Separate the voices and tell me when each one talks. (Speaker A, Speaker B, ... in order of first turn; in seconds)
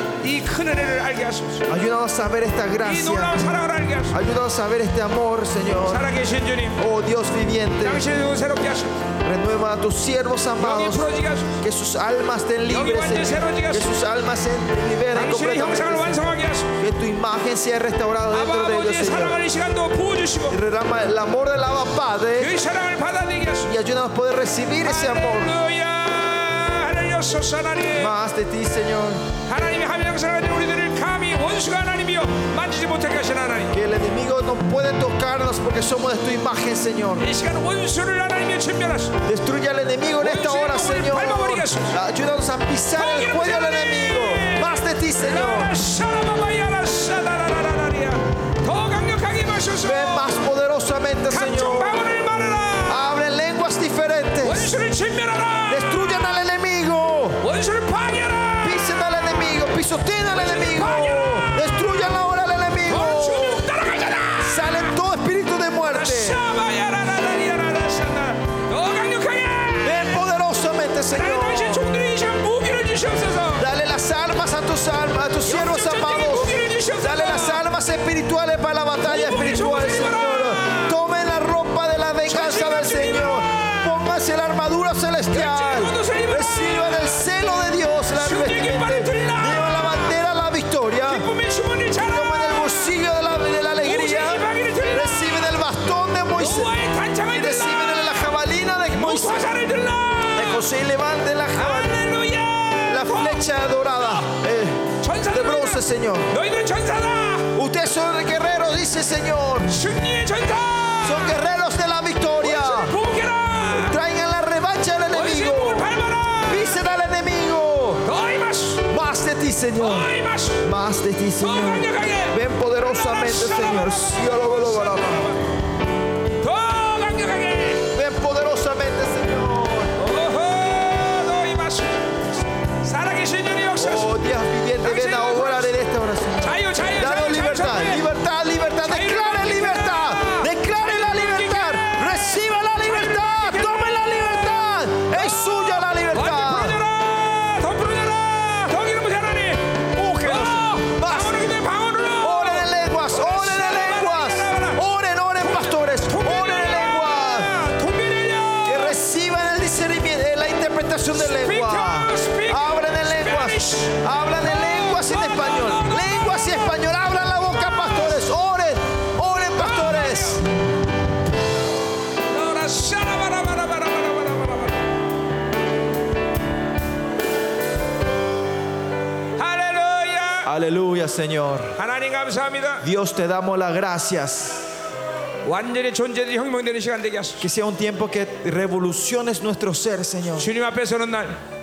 Speaker A: 0.2-1.7, 2.8-4.2, 5.8-6.8, 7.8-9.1, 10.6-11.6, 12.7-13.9, 15.1-16.7, 18.3-20.6, 22.4-23.7, 24.8-28.1, 29.5-33.7, 37.2-39.2, 40.2-42.0, 42.9-50.4, 51.3-53.1, 54.4-56.4, 57.4-59.1, 60.3-61.9, 62.9-64.9, 65.9-70.2, 71.1-73.7, 75.4-77.6, 79.0-80.9, 82.2-84.0, 85.3-87.2, 88.1-90.1, 91.0-92.9, 93.8-95.5, 96.3-98.4, 98.9-100.6, 101.5-104.3, 105.0-107.5, 109.7-111.5, 112.4-114.0, 115.1-116.8, 118.0-118.9, 119.8-120.6, 121.4-125.5, 126.4-127.9, 130.0-134.1, 134.8-135.7, 136.4-138.1, 138.8-142.2, 142.8-144.4, 145.1-154.8, 155.4-158.9, 161.1-166.7, 167.6-168.1, 169.6-170.4, 172.3-174.9, 179.3-180.5, 181.8-182.8, 185.4-187.4, 190.4-191.4
Speaker B: 1.7-3.4, 4.1-6.1, 6.8-8.1, 9.2-19.4, 20.5-22.5, 23.6-25.6, 27.9-29.3, 33.7-37.3, 39.2-45.8, 49.8-52.0, 52.9-54.7, 55.7-57.4, 58.6-63.7, 64.4-66.4, 69.8-71.9, 73.6-91.3, 92.0-99.7, 100.3-102.0, 102.8-106.3, 107.5-109.8, 111.0-113.0, 113.7-115.9, 116.5-118.0, 118.8-125.3, 127.9-130.0, 133.8-146.8, 149.9-151.6, 152.2-157.5, 158.7-170.4, 180.4-181.8, 182.8-184.7, 187.4-190.5